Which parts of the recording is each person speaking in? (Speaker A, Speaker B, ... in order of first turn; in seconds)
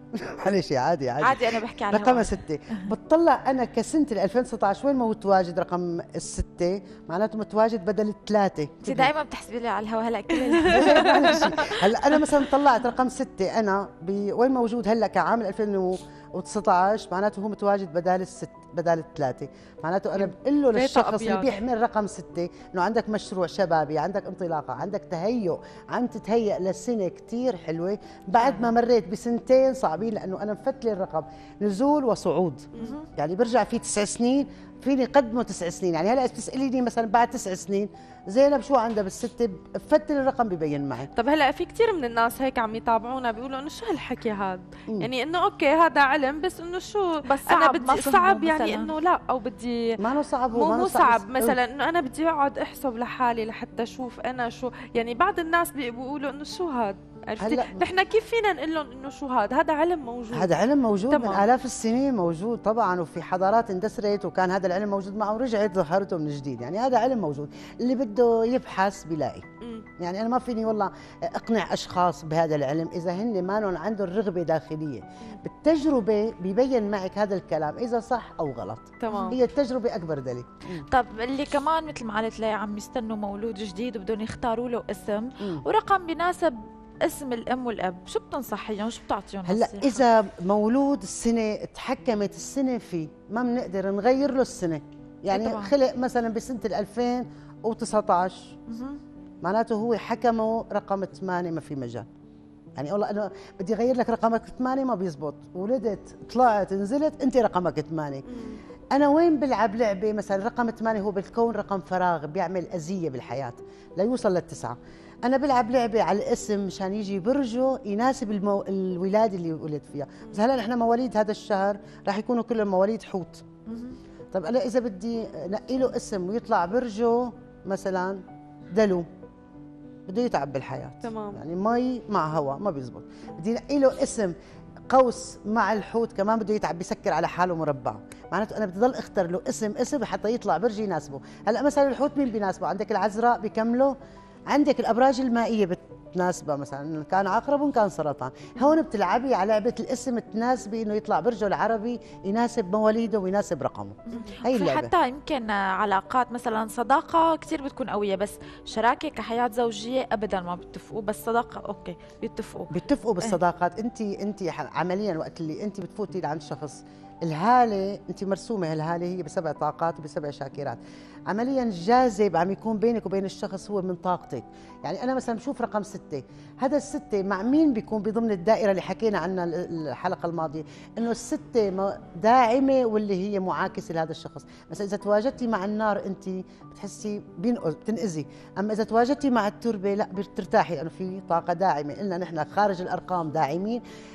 Speaker A: 0.1-9.1, 10.6-41.1, 50.0-51.6, 57.4-57.8, 60.3-69.4, 70.0-80.8, 89.4-98.5, 99.4-102.1, 102.8-108.2, 108.9-123.4, 124.3-128.2, 128.7-129.1, 130.1-134.3, 134.9-143.9, 144.5-154.9, 162.7-170.8, 171.3-193.8
Speaker B: 1.2-2.8, 8.8-11.7, 32.8-33.1, 47.2-48.9, 80.9-90.0, 95.3-95.7, 98.7-99.0, 123.7-124.0, 154.1-162.7
Speaker C: 10.7-11.5, 20.2-21.5, 41.1-50.0, 50.5-60.5, 61.1-61.4, 69.6-69.9, 79.0-79.4, 108.3-108.6, 131.0-131.4